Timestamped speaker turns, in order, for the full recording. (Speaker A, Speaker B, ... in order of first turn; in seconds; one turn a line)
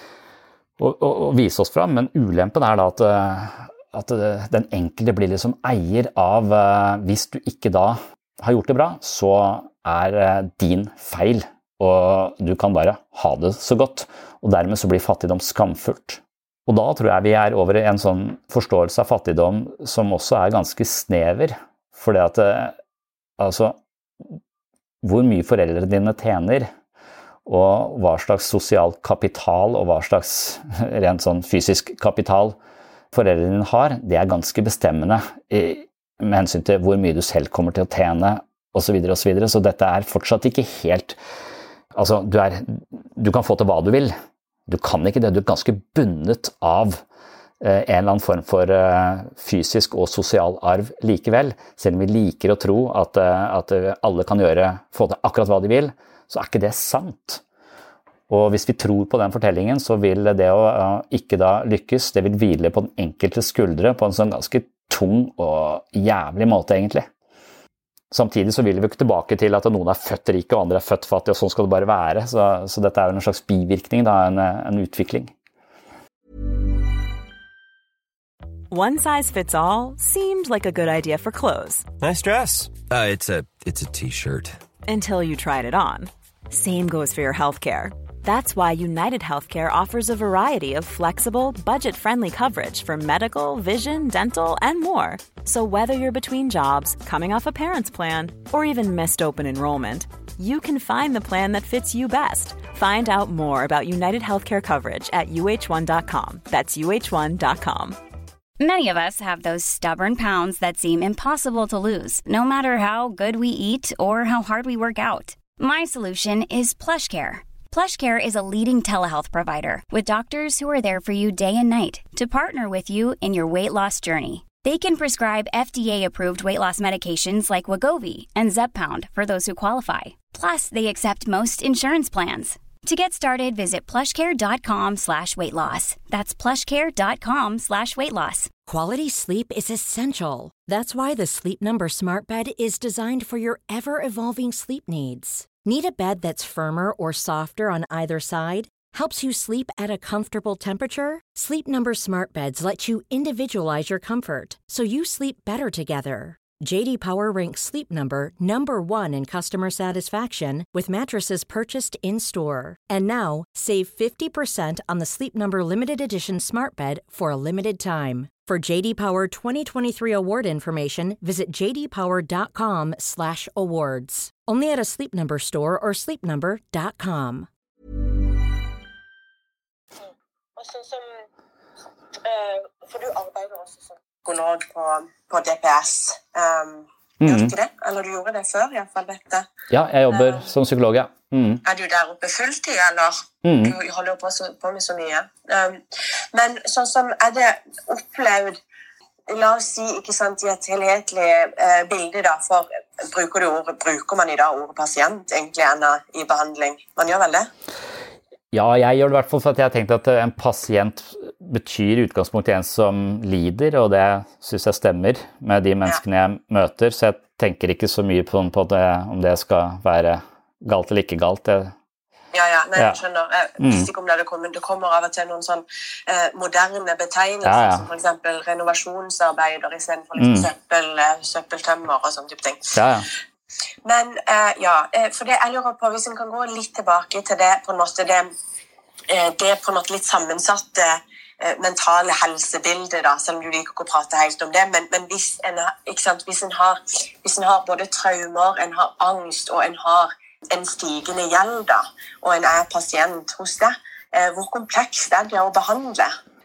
Speaker A: 0.8-22.8
Speaker A: 23.4-23.8
Speaker A: 25.0-26.7
Speaker A: 27.5-32.6
Speaker A: 33.1-41.2
Speaker A: 42.0-44.1
Speaker A: 44.7-47.0
Speaker A: 47.6-57.4
Speaker A: 58.3-67.1
Speaker A: 68.1-75.3
Speaker B: 78.7-81.9
Speaker C: 82.0-84.6
Speaker B: 84.8-108.0
Speaker D: 108.6-138.5
Speaker E: 138.7-177.5
Speaker F: 180.1-181.3
Speaker F: 182.2-189.5
Speaker A: 187.2-187.5
Speaker A: 189.7-191.6
Speaker F: 190.1-190.4
Speaker F: 191.7-195.8
Speaker A: 193.4-193.8
Speaker F: 196.3-198.6
Speaker F: 199.3-207.5
Speaker A: 208.5-221.7
Speaker F: 222.3-232.7
Speaker A: 223.6-223.9
Speaker A: 227.4-227.9
Speaker A: 230.2-230.5
Speaker A: 232.7-233.1
Speaker F: 233.8-238.3
Speaker F: 239.1-256.2